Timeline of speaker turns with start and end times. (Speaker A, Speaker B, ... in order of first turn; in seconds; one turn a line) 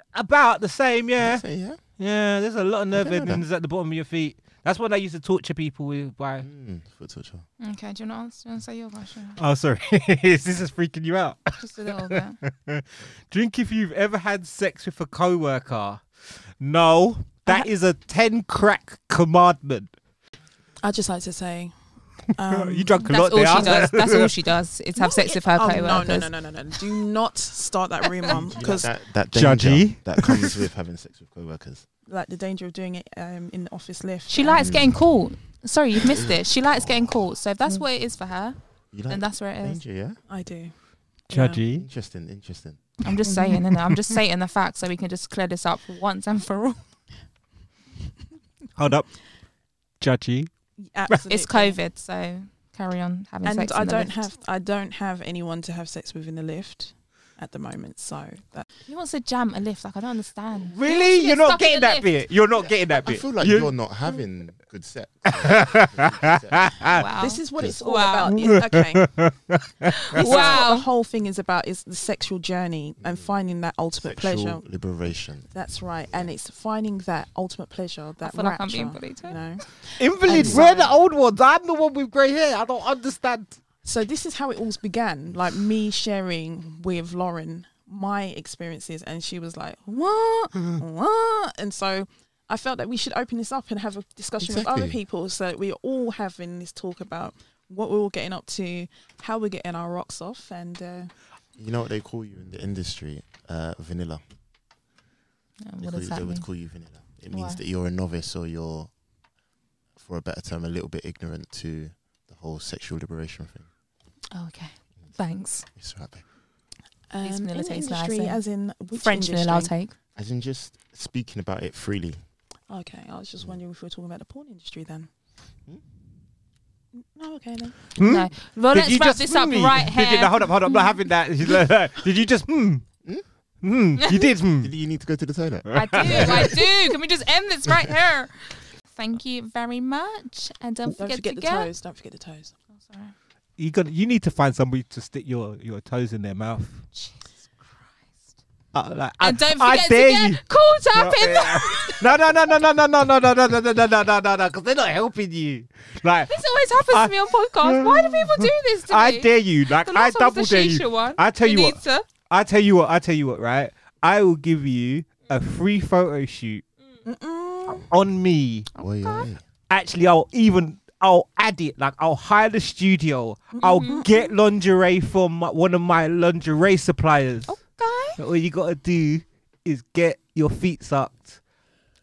Speaker A: 0.1-6.5
Speaker B: 1.2-1.8
Speaker B: 3.0-3.4
Speaker B: 6.4-7.5
Speaker C: 7.6-9.4
Speaker A: 9.4-19.9
Speaker C: 11.6-12.4
Speaker D: 20.8-21.8
Speaker D: 22.3-23.9
Speaker A: 22.5-24.3
Speaker C: 23.0-26.3
Speaker D: 25.0-28.9
Speaker B: 28.4-31.9
Speaker A: 29.3-30.6
Speaker D: 32.1-34.8
Speaker C: 34.3-39.8
Speaker B: 34.5-35.0
Speaker B: 36.0-37.1
Speaker B: 38.9-40.2
Speaker D: 40.3-40.7
Speaker D: 41.2-41.6
Speaker A: 41.3-41.9
Speaker B: 41.8-43.0
Speaker C: 43.0-46.8
Speaker A: 48.8-49.2
Speaker A: 50.0-50.5
Speaker D: 50.8-51.8
Speaker C: 51.3-54.3
Speaker D: 53.5-58.7
Speaker C: 58.9-62.1
Speaker A: 60.6-63.7
Speaker B: 63.0-66.9
Speaker A: 65.4-67.0
Speaker C: 66.9-68.4
Speaker D: 67.0-69.3
Speaker B: 67.5-67.8
Speaker A: 68.3-70.6
Speaker C: 70.0-70.9
Speaker D: 70.1-74.6
Speaker B: 74.0-75.5
Speaker D: 75.5-80.8
Speaker C: 78.2-79.6
Speaker A: 80.0-83.6
Speaker C: 80.6-80.9
Speaker D: 83.8-101.1
Speaker B: 94.4-95.0
Speaker B: 101.6-104.2
Speaker C: 105.7-106.5
Speaker B: 105.8-109.0
Speaker C: 107.3-107.6
Speaker B: 110.0-113.7
Speaker C: 114.3-115.7
Speaker B: 115.7-116.2
Speaker D: 117.1-119.7
Speaker C: 117.2-118.4
Speaker C: 118.9-119.9
Speaker B: 120.2-122.2
Speaker D: 122.7-125.1
Speaker D: 126.9-127.8
Speaker A: 128.0-132.9
Speaker C: 128.0-131.0
Speaker A: 133.6-134.7
Speaker C: 134.0-134.3
Speaker B: 134.6-136.3
Speaker A: 135.7-136.6
Speaker C: 135.7-141.7
Speaker D: 141.0-142.5
Speaker C: 142.8-143.1
Speaker A: 143.6-146.9
Speaker C: 146.9-147.5
Speaker A: 148.7-150.4
Speaker C: 149.2-152.1
Speaker A: 150.9-166.7
Speaker C: 156.3-162.1
Speaker D: 167.1-167.9
Speaker A: 167.7-168.7
Speaker B: 168.8-169.4
Speaker C: 168.8-169.3
Speaker A: 169.7-177.6
Speaker D: 173.6-174.3
Speaker C: 173.6-174.0
Speaker C: 177.5-178.2
Speaker A: 178.2-181.4